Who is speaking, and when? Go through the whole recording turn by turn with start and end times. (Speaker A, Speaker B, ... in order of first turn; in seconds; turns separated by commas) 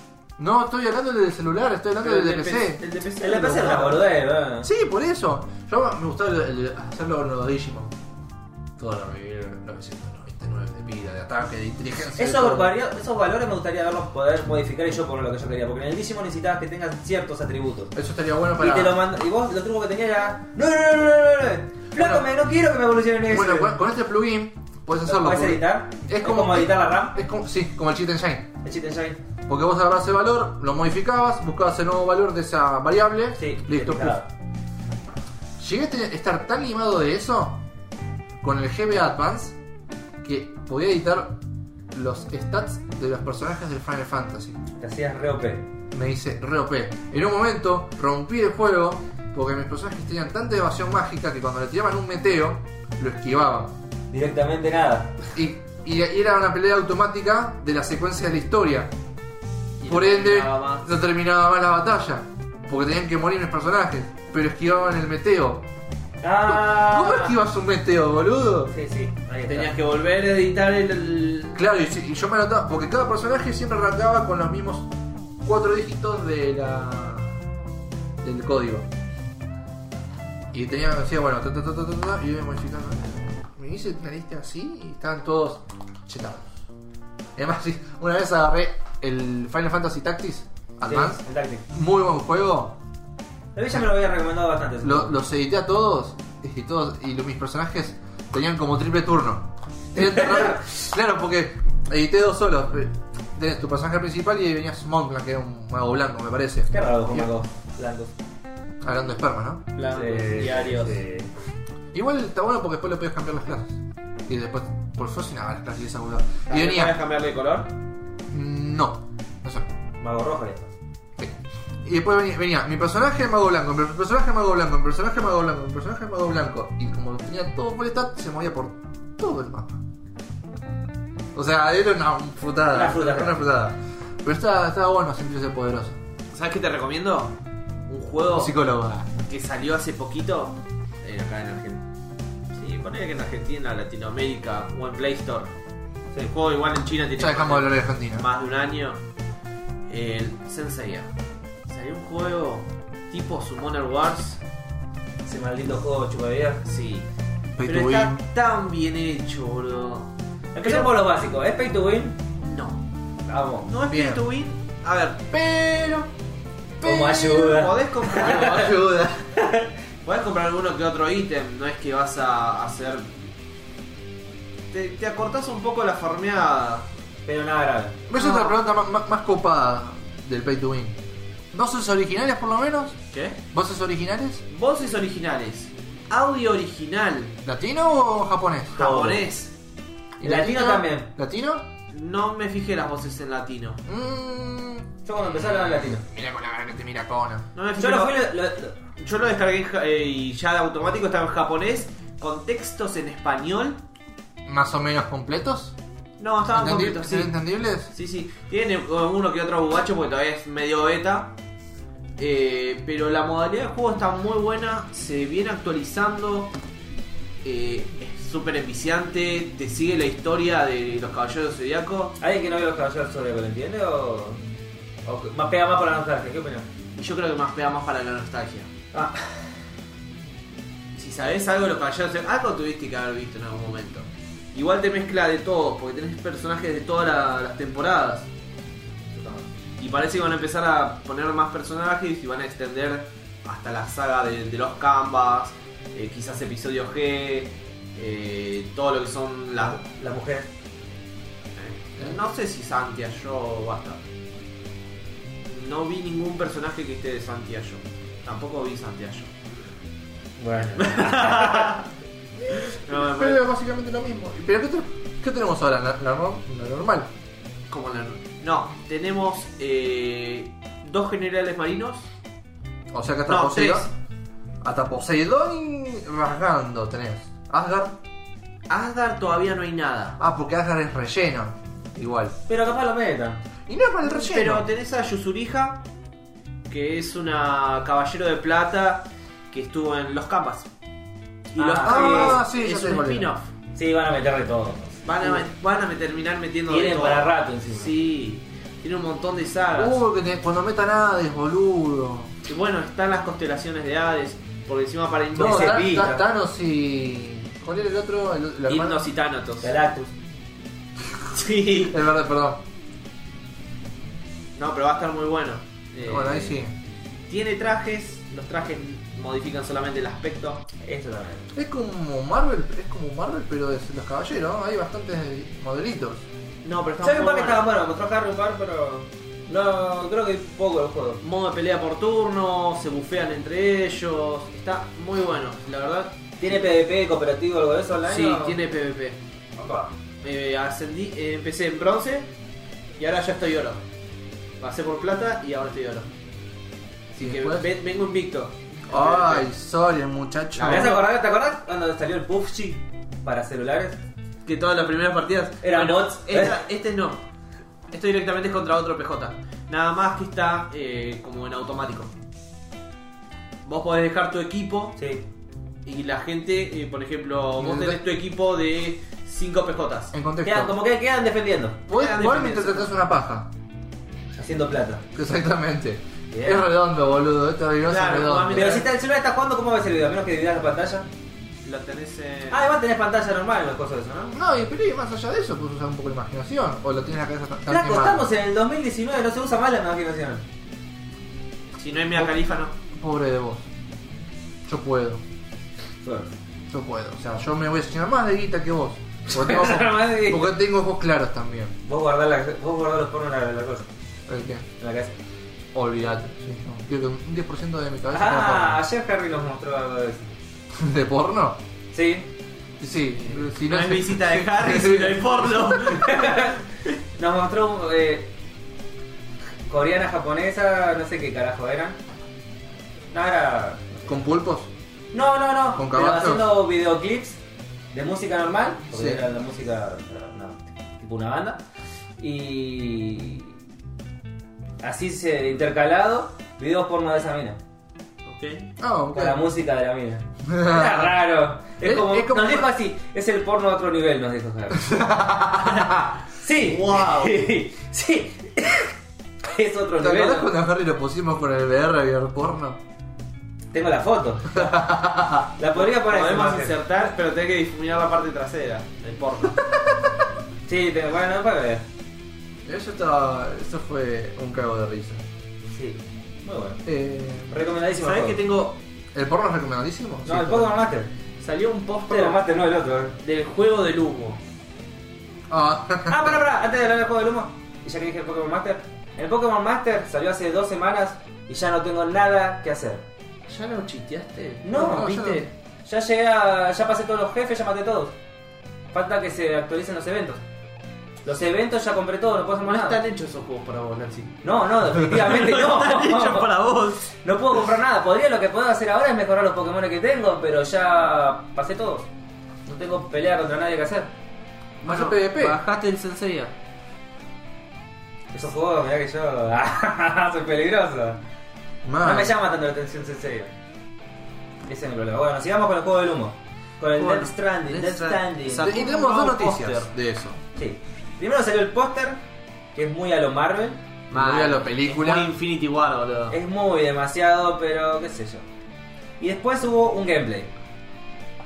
Speaker A: 0.4-2.8, Speaker B: 2.0-4.0, Speaker C: 3.2-4.7, Speaker A: 4.6-7.9, Speaker A: 8.8-12.7, Speaker C: 12.2-17.9, Speaker A: 17.9-19.0, Speaker C: 18.6-23.8, Speaker A: 22.0-22.2, Speaker A: 23.3-28.5, Speaker C: 25.1-27.2, Speaker C: 28.6-29.2, Speaker A: 29.5-34.2, Speaker C: 33.4-34.3, Speaker A: 35.6-37.6, Speaker A: 38.4-39.5, Speaker A: 40.2-41.4, Speaker A: 41.9-44.6, Speaker C: 44.8-45.6, Speaker A: 45.9-53.7, Speaker C: 54.1-55.1, Speaker A: 55.3-58.9, Speaker B: 59.8-60.9, Speaker A: 59.9-65.6, Speaker C: 66.2-67.3, Speaker A: 66.4-68.7, Speaker C: 68.7-69.8, Speaker B: 69.5-71.6, Speaker A: 71.5-74.9, Speaker A: 75.4-77.3, Speaker A: 78.2-78.9, Speaker A: 80.5-86.5, Speaker A: 87.3-92.8, Speaker C: 90.8-91.6, Speaker C: 93.5-95.1, Speaker A: 94.8-107.3, Speaker C: 99.9-100.6, Speaker C: 106.7-108.1, Speaker A: 108.8-109.7, Speaker B: 109.8-111.0, Speaker C: 109.9-111.3, Speaker A: 111.9-117.0, Speaker B: 116.5-117.7, Speaker A: 118.3-119.7, Speaker C: 120.0-120.7, Speaker A: 121.2-129.8, Speaker A: 131.3-136.0, Speaker C: 132.7-133.5, Speaker B: 136.3-137.3, Speaker B: 137.9-138.5, Speaker A: 138.3-139.1, Speaker B: 139.2-141.8, Speaker B: 142.5-145.5, Speaker B: 146.3-149.0, Speaker A: 147.2-148.2, Speaker B: 149.9-151.1, Speaker B: 151.7-154.4, Speaker C: 155.2-156.6, Speaker B: 156.6-157.1, Speaker A: 157.6-158.2, Speaker B: 157.6-160.9, Speaker C: 160.5-162.2, Speaker B: 162.4-162.8, Speaker C: 163.2-163.7, Speaker B: 163.6-165.2, Speaker A: 163.9-164.2, Speaker A: 165.3-166.1, Speaker C: 166.8-168.7, Speaker B: 166.9-168.7, Speaker A: 168.1-169.3, Speaker C: 169.3-169.7, Speaker B: 170.0-173.1, Speaker B: 174.7-176.9, Speaker C: 177.2-178.5, Speaker A: 178.1-181.0, Speaker A: 181.5-183.0, Speaker B: 183.1-183.4, Speaker A: 183.5-184.4, Speaker B: 184.5-187.4, Speaker A: 187.4-189.1, Speaker B: 188.8-189.5, Speaker C: 188.8-189.2, Speaker A: 190.2-191.7, Speaker C: 190.2-191.1, Speaker B: 191.9-193.8, Speaker A: 193.8-194.9, Speaker C: 195.1-196.0, Speaker A: 195.4-197.5, Speaker B: 197.5-198.2, Speaker C: 197.8-198.8, Speaker B: 199.0-203.8, Speaker A: 204.4-205.7, Speaker B: 206.2-207.3, Speaker A: 206.5-207.9, Speaker B: 207.9-211.3, Speaker B: 212.2-216.5, Speaker B: 217.4-222.2, Speaker C: 222.2-224.4, Speaker C: 225.0-226.7, Speaker B: 226.9-228.7, Speaker C: 228.9-229.5, Speaker B: 230.9-238.3, Speaker C: 239.1-239.4, Speaker B: 239.8-249.8, Speaker C: 249.6-250.5, Speaker B: 251.6-254.0, Speaker B: 255.4-259.3, Speaker C: 260.4-261.8, Speaker B: 260.8-261.9, Speaker B: 262.5-263.4, Speaker A: 262.9-267.1, Speaker B: 267.7-272.1, Speaker A: 272.9-273.9, Speaker B: 273.3-273.9, Speaker A: 274.6-278.0, Speaker B: 278.7-280.2, Speaker A: 280.2-282.4, Speaker C: 282.5-283.4, Speaker A: 283.7-284.6, Speaker B: 284.0-285.8, Speaker B: 286.7-290.7, Speaker B: 291.5-293.5, Speaker C: 291.6-292.4, Speaker A: 291.8-293.3, Speaker C: 293.7-295.5, Speaker B: 295.0-300.0, Speaker C: 296.7-297.9, Speaker A: 299.8-302.3, Speaker B: 302.4-306.0, Speaker C: 305.3-306.2, Speaker A: 305.3-309.0, Speaker B: 308.7-309.7, Speaker C: 309.6-310.1, Speaker B: 311.3-312.0, Speaker A: 311.9-312.6, Speaker B: 314.6-316.6, Speaker A: 316.0-316.7, Speaker B: 317.3-320.6, Speaker C: 320.8-321.5, Speaker A: 321.5-326.2, Speaker B: 326.6-327.6, Speaker C: 327.0-331.2, Speaker B: 331.2-336.6, Speaker C: 336.4-338.6, Speaker B: 338.1-339.2, Speaker C: 339.6-339.9, Speaker B: 340.2-342.3, Speaker B: 343.0-343.8, Speaker B: 344.6-346.1, Speaker A: 347.1-347.7, Speaker B: 347.1-349.5, Speaker A: 348.9-351.0, Speaker B: 350.5-351.0, Speaker C: 350.6-354.0, Speaker B: 354.4-357.2, Speaker C: 355.6-356.6, Speaker B: 357.9-362.1, Speaker B: 363.6-365.0, Speaker C: 365.0-365.2, Speaker B: 365.8-370.1, Speaker A: 367.6-368.0, Speaker A: 370.1-370.7, Speaker C: 370.4-371.8, Speaker A: 371.9-373.5, Speaker B: 371.9-372.9, Speaker C: 374.3-375.0, Speaker A: 375.1-378.8, Speaker C: 376.3-376.6, Speaker B: 377.9-378.9, Speaker C: 378.5-381.1, Speaker B: 381.6-382.7, Speaker C: 382.5-384.4, Speaker A: 384.3-388.3, Speaker C: 387.7-390.4, Speaker B: 391.8-392.7, Speaker A: 392.9-393.7, Speaker A: 394.6-395.2, Speaker C: 396.0-396.3, Speaker A: 396.7-401.7, Speaker C: 399.3-400.5, Speaker C: 401.8-403.9, Speaker A: 404.3-404.7, Speaker C: 404.8-405.1, Speaker A: 405.7-408.8, Speaker C: 408.1-410.2, Speaker A: 410.7-411.6, Speaker C: 411.9-412.3, Speaker A: 412.8-415.8, Speaker B: 413.3-416.4, Speaker C: 415.9-416.6, Speaker C: 417.1-418.3, Speaker C: 419.7-422.0, Speaker C: 423.1-424.1, Speaker A: 424.1-424.7, Speaker C: 425.1-427.4, Speaker A: 425.8-426.6, Speaker C: 427.9-431.6, Speaker A: 428.9-429.2, Speaker C: 432.2-433.5, Speaker C: 434.8-437.6, Speaker B: 438.2-438.7, Speaker A: 438.8-439.4, Speaker C: 439.1-444.9, Speaker A: 440.4-441.1, Speaker A: 441.8-442.7, Speaker A: 444.7-446.0, Speaker C: 445.6-450.5, Speaker B: 446.6-447.4, Speaker A: 450.0-452.8, Speaker C: 453.7-454.8, Speaker A: 454.5-455.5, Speaker C: 455.6-456.7, Speaker B: 455.7-459.6, Speaker C: 460.7-461.8, Speaker A: 462.6-465.2, Speaker C: 465.7-466.8, Speaker A: 466.8-467.5, Speaker C: 467.5-468.4, Speaker B: 468.0-468.8, Speaker A: 469.1-470.7, Speaker C: 470.2-471.1, Speaker B: 471.4-472.4, Speaker C: 472.1-473.1, Speaker B: 473.2-474.4, Speaker A: 475.5-476.4, Speaker C: 476.1-483.0, Speaker B: 483.5-484.8, Speaker C: 484.6-488.1, Speaker A: 484.7-485.5, Speaker C: 488.9-490.4, Speaker C: 491.2-493.0, Speaker B: 492.6-494.4, Speaker C: 494.4-496.5, Speaker B: 495.1-497.1, Speaker C: 497.1-502.1, Speaker C: 502.7-504.1, Speaker B: 504.8-506.5, Speaker A: 504.8-505.6, Speaker C: 508.3-511.2, Speaker A: 511.8-512.3, Speaker C: 512.0-513.5, Speaker C: 514.6-518.8, Speaker B: 516.9-519.9, Speaker A: 518.5-520.4, Speaker C: 520.5-522.2, Speaker C: 522.7-523.8, Speaker B: 524.1-526.4, Speaker A: 524.1-525.3, Speaker C: 526.3-528.4, Speaker C: 529.2-530.5